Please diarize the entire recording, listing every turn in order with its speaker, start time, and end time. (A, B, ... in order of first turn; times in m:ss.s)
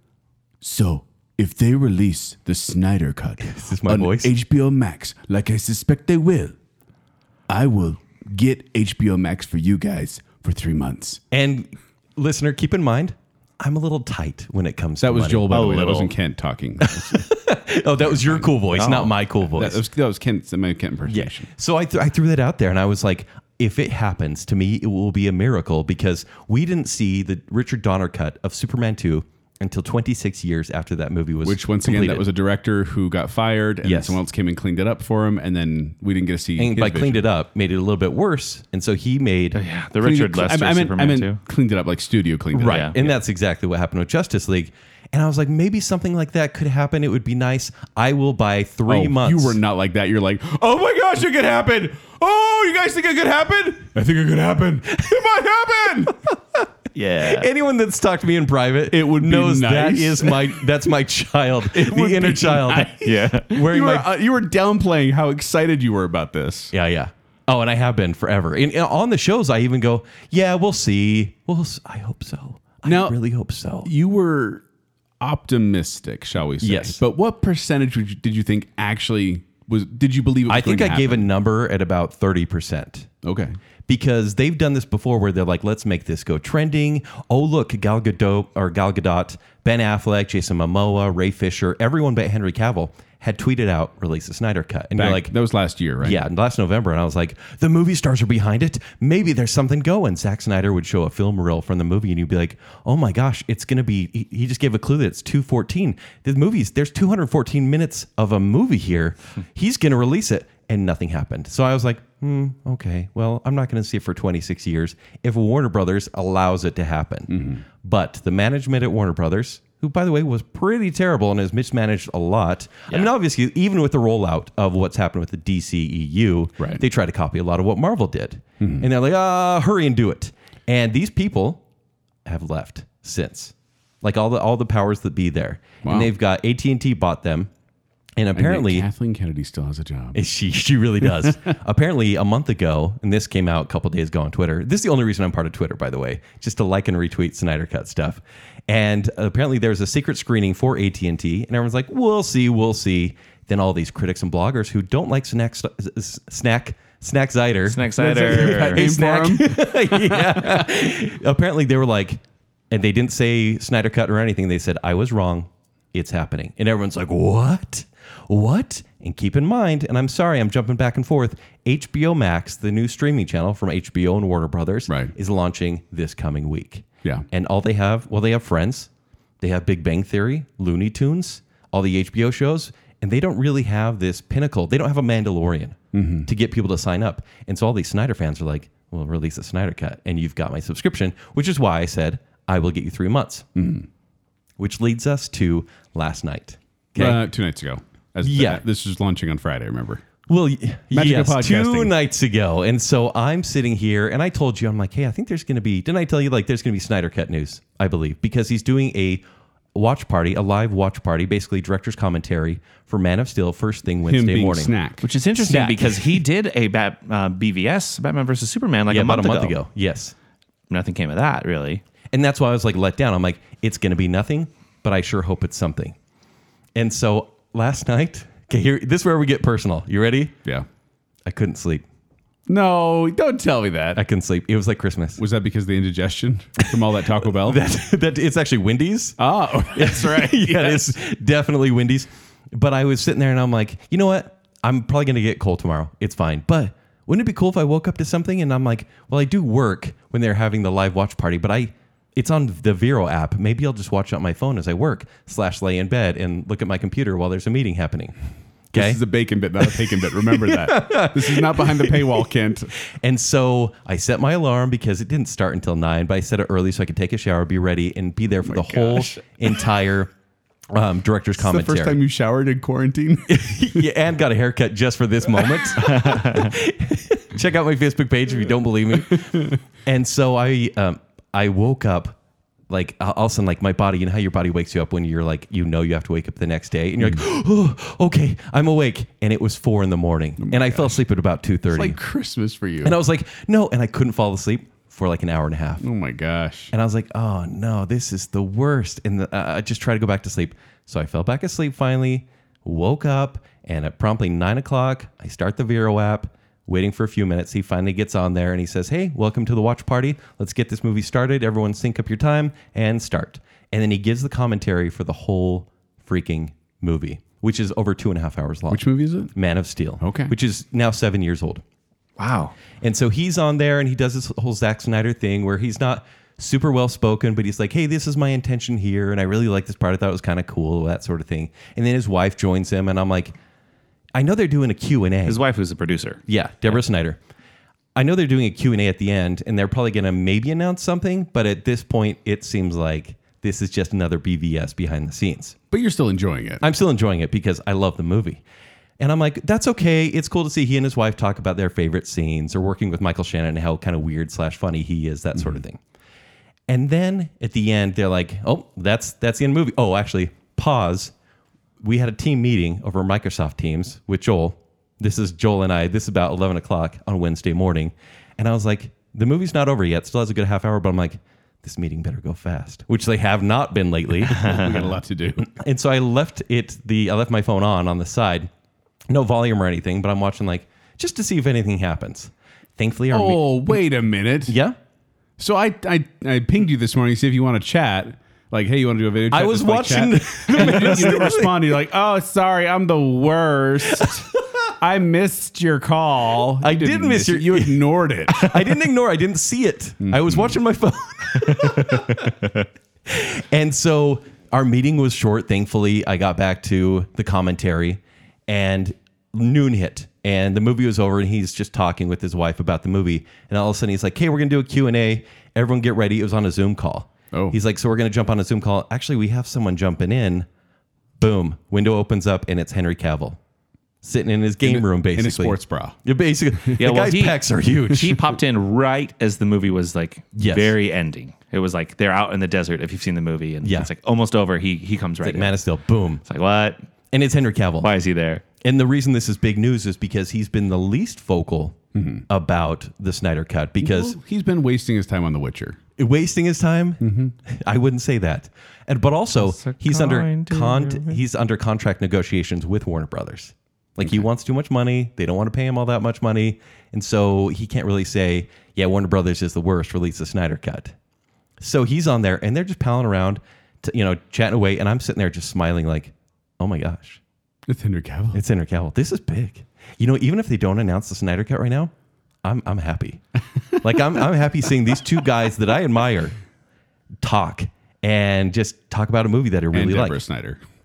0:00.6-0:06.6 A
0:03.4-0:04.3 B
0:07.5-0:11.2 A
0:11.3-0:15.5 B
0:15.0-0:17.2 A
0:15.5-0:16.1 C
0:16.8-0:19.8 B
0:18.1-0:18.5 A
0:18.8-0:19.1 C
0:19.4-0:21.5 A
0:21.1-0:32.3 B
0:31.4-0:37.3 A
0:33.8-0:34.2 B
0:36.6-0:39.6 B
0:39.6-0:41.4 C
0:40.0-0:42.9 A
0:42.5-0:49.6 B
0:42.7-0:43.1 C
0:48.9-0:56.2 A
0:56.9-0:57.5 C
0:57.2-1:04.1 B
0:58.9-1:00.7 A
1:01.7-1:06.7 A
1:03.0-1:03.5 C
1:06.7-1:13.9 B
1:12.8-1:13.2 A
1:13.8-1:14.6 A
1:15.2-1:21.3 A
1:16.6-1:17.0 B
1:20.5-1:23.1 B
1:23.2-1:23.6 A
1:23.9-1:35.3 B
1:35.0-1:36.2 A
1:36.0-2:11.6 B
1:57.3-1:57.6 A
2:08.6-2:08.9 A
2:12.3-2:17.5 B
2:15.8-2:16.1 A
2:18.2-2:18.9 B
2:18.4-2:20.2 A
2:20.1-2:58.9 B
2:21.0-2:21.4 A
2:37.7-2:38.9 C
2:38.0-2:40.7 A
2:59.4-3:13.5 B
3:05.9-3:06.3 A
3:13.6-3:13.9 A
3:14.6-3:17.2 B
3:17.0-3:20.0 A
3:18.2-3:18.6 B
3:20.3-3:29.2 B
3:20.9-3:22.0 A
3:29.7-3:34.7 B
3:34.0-3:35.1 A
3:35.0-3:39.6 C
3:35.4-3:36.2 B
3:38.9-3:40.1 B
3:40.7-3:41.8 C
3:42.1-3:46.0 B
3:46.8-3:50.4 B
3:51.3-3:51.8 B
3:52.5-3:54.0 A
3:54.0-3:55.2 B
3:55.2-3:57.6 A
3:57.4-4:18.2 B
3:59.2-4:01.0 A
4:18.7-4:19.0 B
4:18.7-4:22.7 A
4:19.6-4:22.0 B
4:22.9-4:30.1 B
4:28.4-4:29.6 A
4:30.7-4:32.0 B
4:31.4-4:33.8 A
4:33.3-4:42.2 B
4:35.8-4:36.1 A
4:35.9-4:36.5 C
4:39.1-4:39.4 A
4:42.7-4:52.0 B
4:50.4-4:51.0 A
4:51.7-4:53.0 A
4:52.8-4:55.8 B
4:55.8-4:56.7 A
4:56.7-5:21.6 B
5:18.7-5:19.3 A
5:20.0-5:20.3 A
5:22.2-5:22.5 C
5:22.8-5:33.4 B
5:34.2-5:35.4 B
5:35.3-5:36.2 C
5:36.3-5:37.2 B
5:38.0-5:45.6 B
5:45.7-5:46.6 A
5:46.6-5:48.4 B
5:49.0-5:55.8 B
5:56.7-6:01.1 B
6:01.8-6:14.7 B
6:14.3-6:15.5 A
6:14.4-6:14.7 C
6:15.4-6:18.5 B
6:19.1-6:23.8 B
6:23.1-6:24.6 A
6:24.5-6:24.8 B
6:25.4-6:38.7 A
6:29.3-6:31.6 B
6:36.6-6:42.3 B
6:40.0-6:40.6 A
6:41.6-6:41.9 C
6:43.1-7:00.5 B
6:57.3-6:57.6 A
7:01.2-7:03.4 B
7:04.0-7:08.2 B
7:04.6-7:06.0 A
7:06.8-7:15.6 C
7:10.4-7:10.8 B
7:13.6-7:13.9 B
7:15.2-7:16.2 B
7:16.2-7:16.8 C
7:17.1-7:17.9 B
7:17.8-7:18.4 C
7:18.6-7:24.2 B
7:21.9-7:22.2 A
7:23.8-7:25.8 A
7:26.0-7:40.9 B
7:27.0-7:27.4 A
7:29.4-7:31.2 C
7:41.6-7:47.2 B
7:47.7-7:48.4 A
7:48.3-7:51.9 B
7:52.4-7:53.2 B
7:53.7-7:56.3 B
7:57.2-8:00.2 B
7:59.7-8:00.6 A